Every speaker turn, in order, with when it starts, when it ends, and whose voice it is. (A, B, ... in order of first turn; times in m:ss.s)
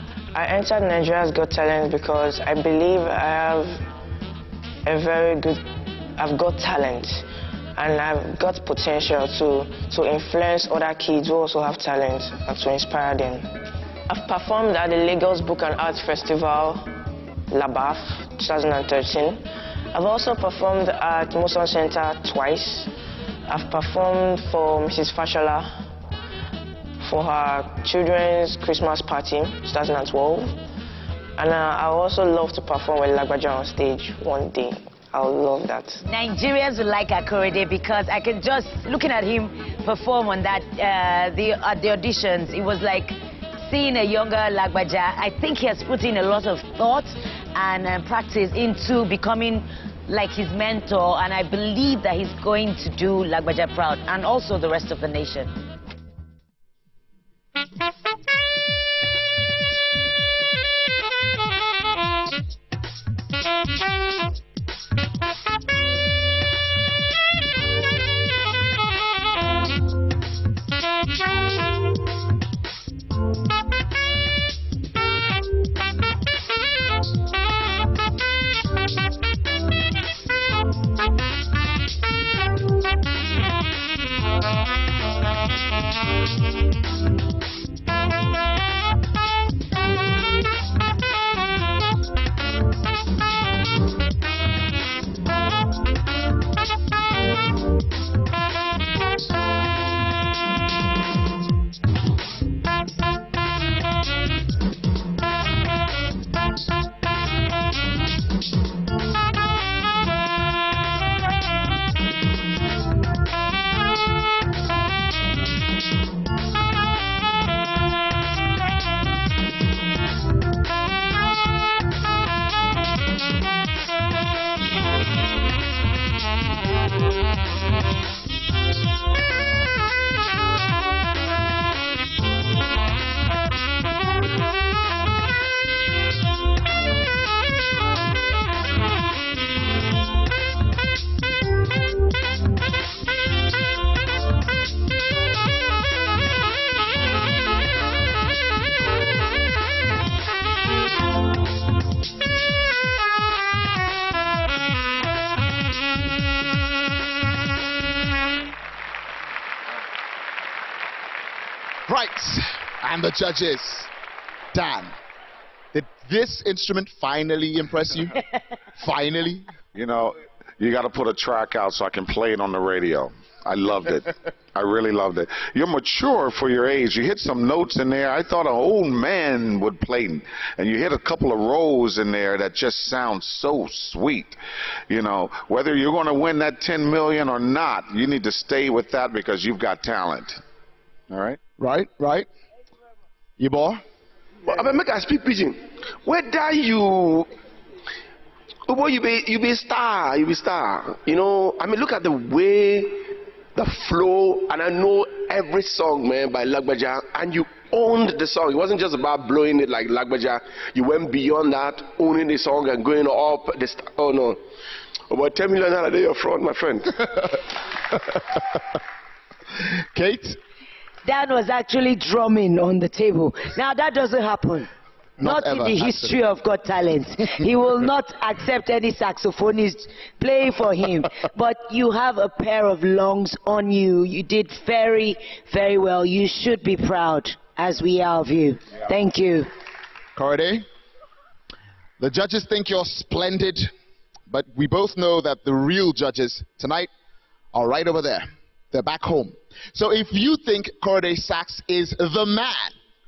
0:00.3-0:03.8 A
0:04.8-0:05.6 A
0:06.2-0:13.5 A
0:14.1-0:16.9 A
0:17.5-0:19.4 A
0:19.9-0:22.9 A
0:23.5-0:25.7 A
0:27.0-0:30.6 A
0:31.4-0:36.0 A
0:36.0-0:55.5 B
2:41.9-2:43.9 C
2:44.5-2:45.0 C
2:45.7-2:48.2 C
2:48.7-2:49.5 C
2:49.7-3:04.4 D
3:04.9-3:10.4 D
3:11.1-3:11.4 D
3:11.6-3:12.3 C
3:13.4-3:13.8 C
3:14.4-3:17.3 E
3:18.7-3:34.4 E
3:35.1-3:37.1 E
3:39.7-3:40.4 C
3:41.0-3:44.7 B
3:45.2-3:46.2 C
3:45.2-3:59.5 B
4:00.2-4:00.6 C
4:02.0-4:03.7 C
4:04.3-4:06.9 C
4:07.5-4:12.7 C